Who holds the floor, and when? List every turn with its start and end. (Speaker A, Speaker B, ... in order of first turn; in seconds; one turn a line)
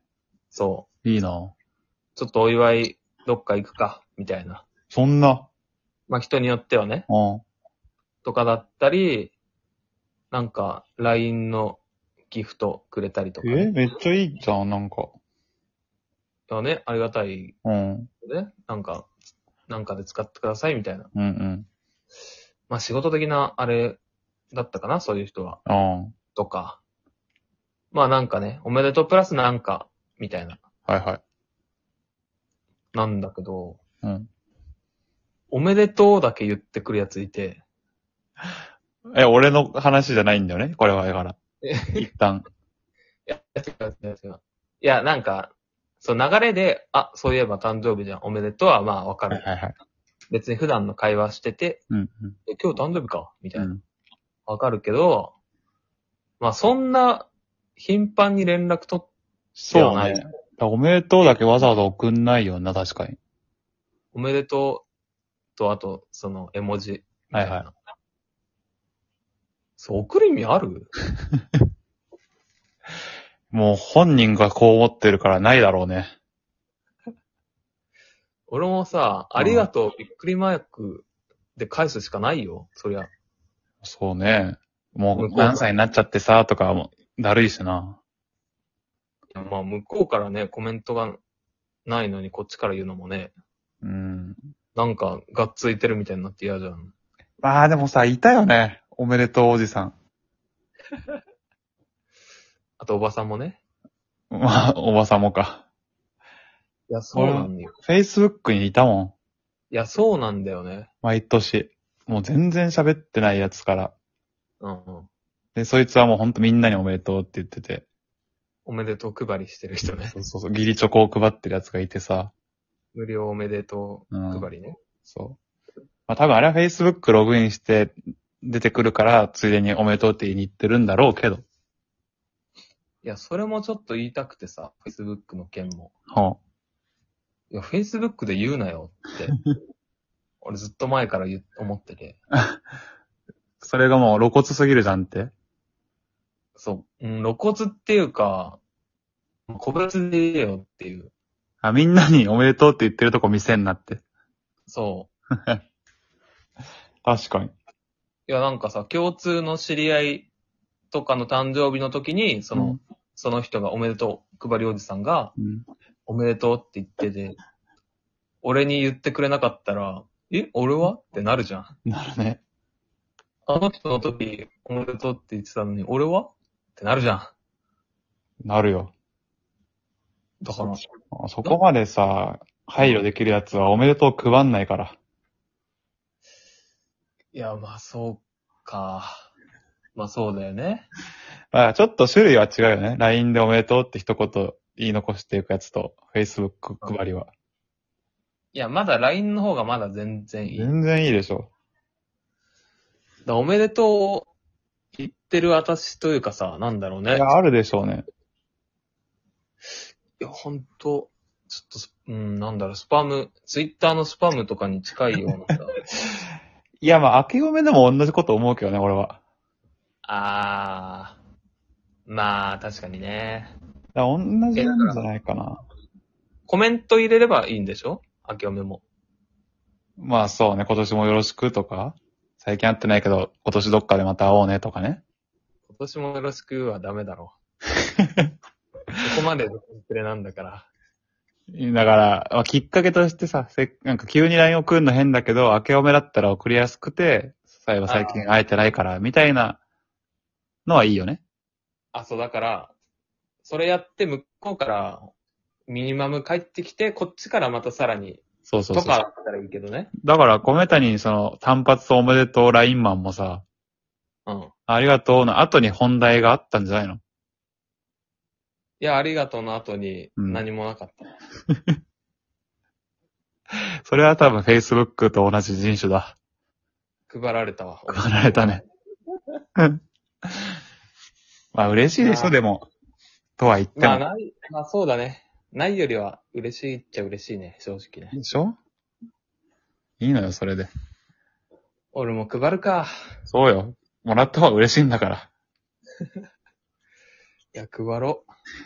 Speaker A: 0.5-0.9
Speaker B: 1.1-1.5
Speaker A: 2.2-4.7
Speaker B: 4.9-5.5
Speaker A: 6.1-7.1
Speaker B: 7.1-7.4
Speaker A: 8.2-9.3
Speaker A: 10.3-13.7
Speaker B: 13.4-15.1
Speaker A: 16.5-17.6
Speaker B: 17.6-18.1
Speaker A: 18.2-19.1
Speaker A: 19.7-21.1
Speaker B: 21.1-21.7
Speaker A: 22.7-24.0
Speaker A: 24.5-25.6
Speaker B: 25.7-26.1
Speaker A: 26.4-26.8
Speaker A: 27.9-30.6
Speaker B: 30.9-31.2
Speaker A: 32.9-33.8
Speaker B: 34.0-34.3
Speaker A: 35.5-37.6
Speaker B: 39.1-41.4
Speaker A: 41.6-42.0
Speaker B: 41.9-42.4
Speaker A: 43.3-49.5
Speaker B: 49.3-49.8
Speaker A: 50.3-51.8
Speaker B: 51.9-52.4
Speaker A: 52.5-53.7
Speaker B: 53.5-53.8
Speaker A: 54.5-55.3
Speaker A: 56.4-59.1
Speaker B: 59.6-63.2
Speaker A: 59.7-60.2
Speaker A: 64.1-64.9
Speaker A: 65.6-67.7
Speaker B: 67.3-67.6
Speaker A: 69.8-70.9
Speaker B: 73.5-76.1
Speaker A: 78.5-81.1
Speaker B: 79.4-79.7
Speaker A: 81.6-83.1
Speaker B: 83.8-88.0
Speaker A: 85.1-85.7
Speaker A: 89.3-91.2
Speaker A: 91.9-93.3
Speaker B: 93.8-94.4
Speaker A: 94.8-96.9
Speaker B: 97.4-100.0
Speaker A: 102.8-103.6
Speaker B: 104.3-105.7
Speaker A: 106.9-107.7
Speaker B: 107.1-109.2
Speaker A: 109.7-110.9
Speaker B: 111.0-114.0
Speaker A: 114.6-115.1
Speaker B: 115.6-117.9
Speaker A: 118.7-120.2
Speaker B: 120.1-122.3
Speaker A: 122.9-124.8
Speaker B: 124.1-124.5
Speaker B: 125.0-125.4
Speaker B: 126.1-131.4
Speaker A: 133.0-135.9
Speaker B: 136.1-136.4
Speaker A: 137.5-139.4
Speaker A: 140.4-142.2
Speaker B: 143.6-145.3
Speaker A: 146.6-148.6
Speaker A: 149.5-151.1
Speaker B: 151.6-154.0
Speaker A: 154.7-155.1
Speaker B: 157.1-157.5
Speaker A: 158.3-160.3
Speaker A: 160.9-165.3
Speaker B: 165.4-165.7
Speaker A: 166.1-167.4
Speaker A: 168.4-171.7
Speaker B: 171.9-172.4
Speaker A: 173.5-177.3
Speaker B: 178.4-178.9
Speaker A: 180.4-180.8
Speaker B: 180.5-185.0
Speaker A: 187.3-189.3
Speaker A: 190.0-190.9
Speaker B: 191.5-197.3
Speaker A: 198.5-200.7
Speaker B: 200.5-201.5
Speaker A: 203.3-204.3
Speaker A: 204.9-207.2
Speaker B: 207.1-208.1
Speaker A: 210.2-215.8
Speaker B: 216.8-219.2
Speaker A: 220.1-221.2
Speaker A: 222.1-223.5
Speaker B: 223.9-225.6
Speaker A: 224.6-225.0
Speaker A: 226.5-228.8
Speaker B: 230.0-235.0
Speaker A: 235.7-237.3
Speaker A: 239.0-240.7
Speaker B: 241.5-249.6
Speaker A: 247.9-248.2
Speaker B: 250.7-251.2
Speaker A: 251.9-252.7
Speaker A: 253.4-255.1
Speaker A: 255.7-259.9
Speaker B: 258.5-259.0
Speaker B: 260.0-263.4
Speaker A: 264.3-264.5
Speaker B: 264.7-267.0
Speaker A: 268.8-271.1
Speaker B: 270.2-270.4
Speaker B: 273.5-276.2
Speaker A: 277.1-278.6
Speaker B: 277.9-278.6
Speaker B: 281.5-282.7
Speaker A: 282.0-282.4
Speaker B: 283.4-284.0
Speaker A: 283.8-288.1
Speaker B: 288.1-288.6
Speaker B: 290.0-290.7
Speaker A: 291.9-292.9
Speaker B: 293.3-295.3
Speaker A: 297.5-298.3